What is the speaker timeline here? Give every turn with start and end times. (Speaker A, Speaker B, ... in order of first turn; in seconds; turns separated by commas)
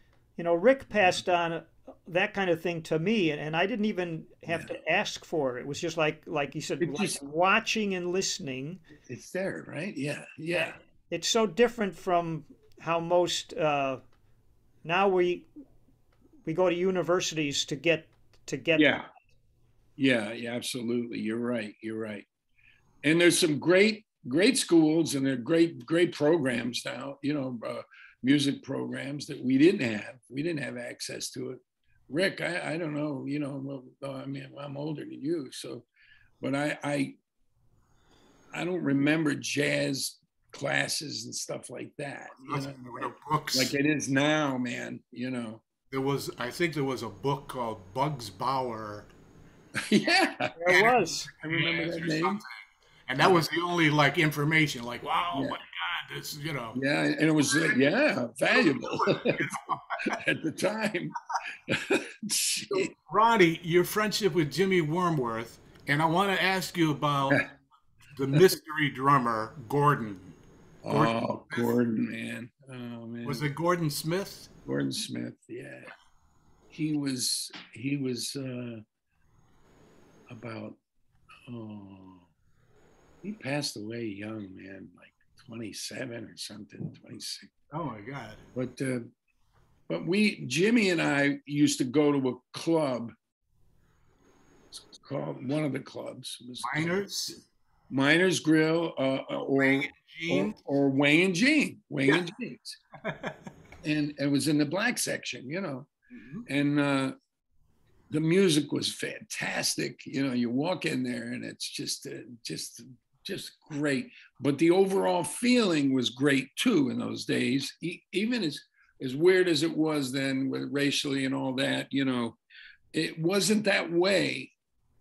Speaker A: 0.4-8.8, Speaker B: 4.5-4.7, Speaker B: 6.8-7.2, Speaker B: 9.1-10.8, Speaker A: 10.5-14.0, Speaker A: 14.8-15.5, Speaker A: 16.4-18.9, Speaker B: 18.8-19.1, Speaker B: 20.0-22.2, Speaker B: 23.0-35.9, Speaker B: 36.4-37.2, Speaker B: 38.5-45.6, Speaker C: 42.5-43.8, Speaker C: 45.9-49.1, Speaker B: 49.8-52.4, Speaker A: 50.6-51.3, Speaker C: 50.7-56.8, Speaker B: 55.3-55.6, Speaker B: 56.7-62.9, Speaker C: 57.5-57.9, Speaker C: 58.5-60.2, Speaker C: 62.7-67.5, Speaker C: 68.1-71.7, Speaker B: 70.8-73.5, Speaker C: 73.2-74.5, Speaker B: 74.6-75.9, Speaker B: 76.7-78.8, Speaker B: 80.3-80.8, Speaker B: 81.5-82.3, Speaker B: 83.2-87.5, Speaker C: 87.7-88.4, Speaker B: 88.5-89.1, Speaker B: 89.9-93.1, Speaker B: 94.7-97.4, Speaker C: 96.6-97.4, Speaker B: 97.9-102.8, Speaker C: 99.6-100.5, Speaker C: 103.0-103.4, Speaker B: 103.8-105.9, Speaker C: 106.1-106.5, Speaker B: 106.5-107.2, Speaker B: 108.1-122.4, Speaker B: 122.9-124.5